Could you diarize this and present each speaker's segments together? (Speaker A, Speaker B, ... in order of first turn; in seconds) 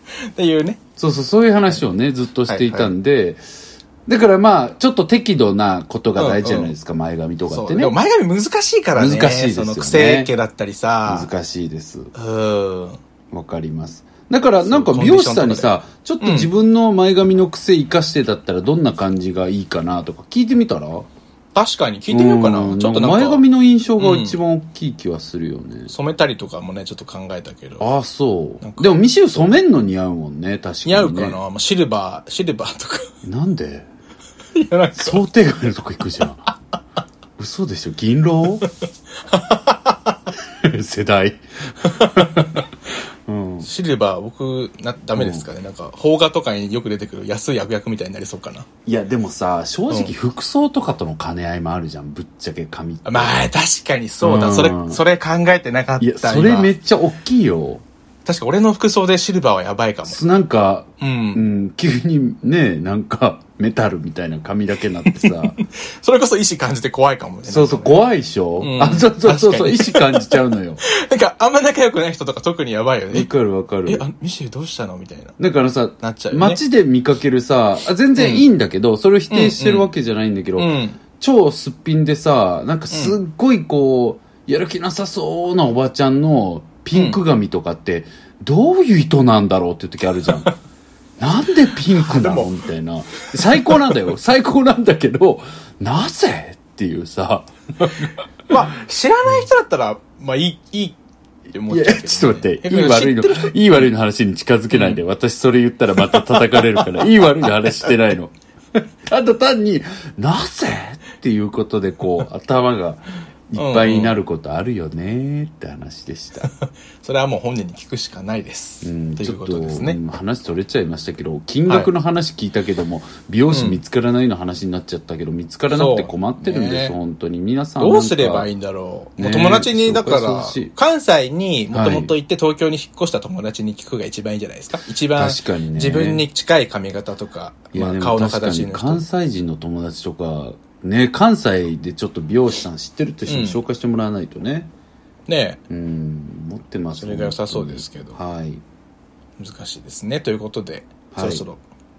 Speaker A: 0.3-0.8, 2.5-2.9, 6.2-6.7, 7.5-11.3, 12.2-13.0, 14.6-16.5, 21.6-23.4, 24.0-24.4, 25.9-27.9, 28.6-29.0, 30.9-33.1, 34.5-35.2, 39.3-40.2, 41.8-42.5, 43.6-48.7, 53.0-56.7, 58.2-60.2, 61.0-61.4, 65.1-68.0, 68.6-73.3, 73.9-75.4, 76.0-76.6, 78.2-78.5, 79.3-79.9, 80.6-81.0, 82.9-83.2, 86.9-87.2, 91.9-92.5, 93.5-93.9, 98.5-101.0, 101.5-103.9, 104.7-105.0, 106.1-107.9, 113.5-114.2, 116.5-120.0, 123.5-123.8, 125.7-127.0, 127.8-139.0, 143.3-143.6, 145.3-145.6, 147.0-148.2, 149.4-151.6
Speaker B: 1.0-3.4, 4.1-8.0, 8.9-10.3, 11.1-12.1, 13.3-21.1, 22.1-25.9, 27.8-31.4, 33.2-33.9, 35.0-36.5, 37.4-38.7, 40.6-42.7, 43.3-43.7, 45.1-45.5, 48.9-53.4, 54.2-55.0, 56.0-57.8, 60.1-65.6, 67.5-70.8, 73.1-74.0, 75.4-90.5, 91.2-98.1, 101.7-116.5, 118.8-128.5, 129.2-130.7, 131.7-132.1, 135.2-136.2, 137.7-144.7, 145.7-148.6, 151.1-151.4